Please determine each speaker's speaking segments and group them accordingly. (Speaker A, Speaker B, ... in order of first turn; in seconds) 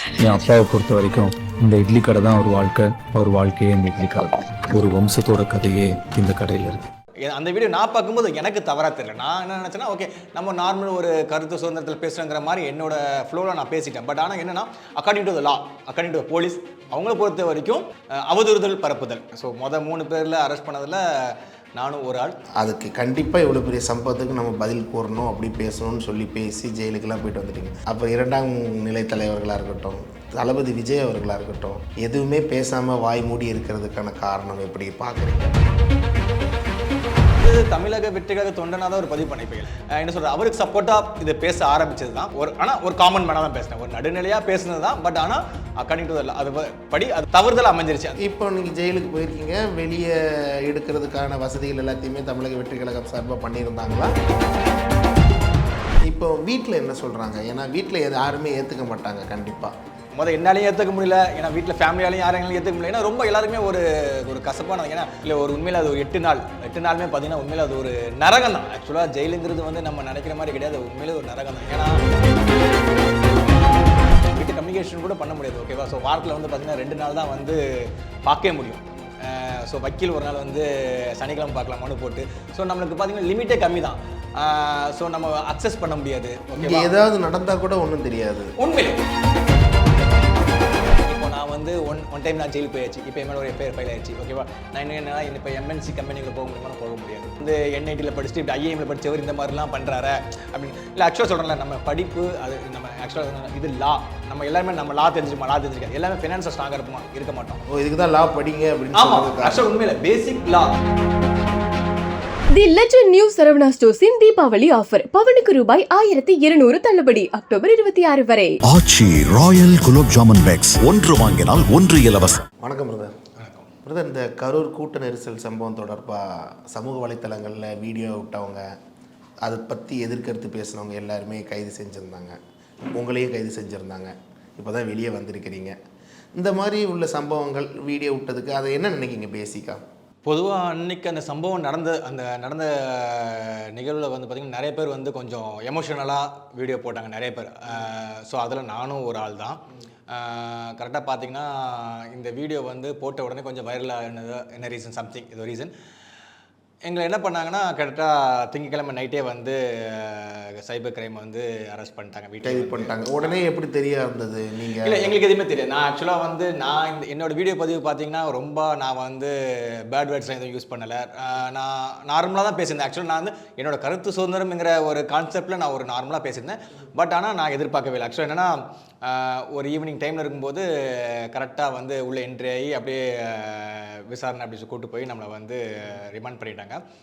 Speaker A: 0.2-6.8
Speaker B: 7.2-22.4, 37.3-48.2, 60.2-72.0, 74.3-87.0, 88.6-89.0, 91.0-107.6, 108.9-110.7, 123.4-123.7, 140.3-155.7, 156.8-163.3, 164.8-186.8
Speaker C: 22.6-35.6, 48.2-54.1, 56.0-59.7, 86.6-88.5, 107.7-109.7, 122.6-123.1, 123.8-128.7, 129.4-132.4, 132.9-135.8, 136.4-139.8, 162.4-165.2
Speaker D: 112.5-118.6
Speaker E: 118.7-122.4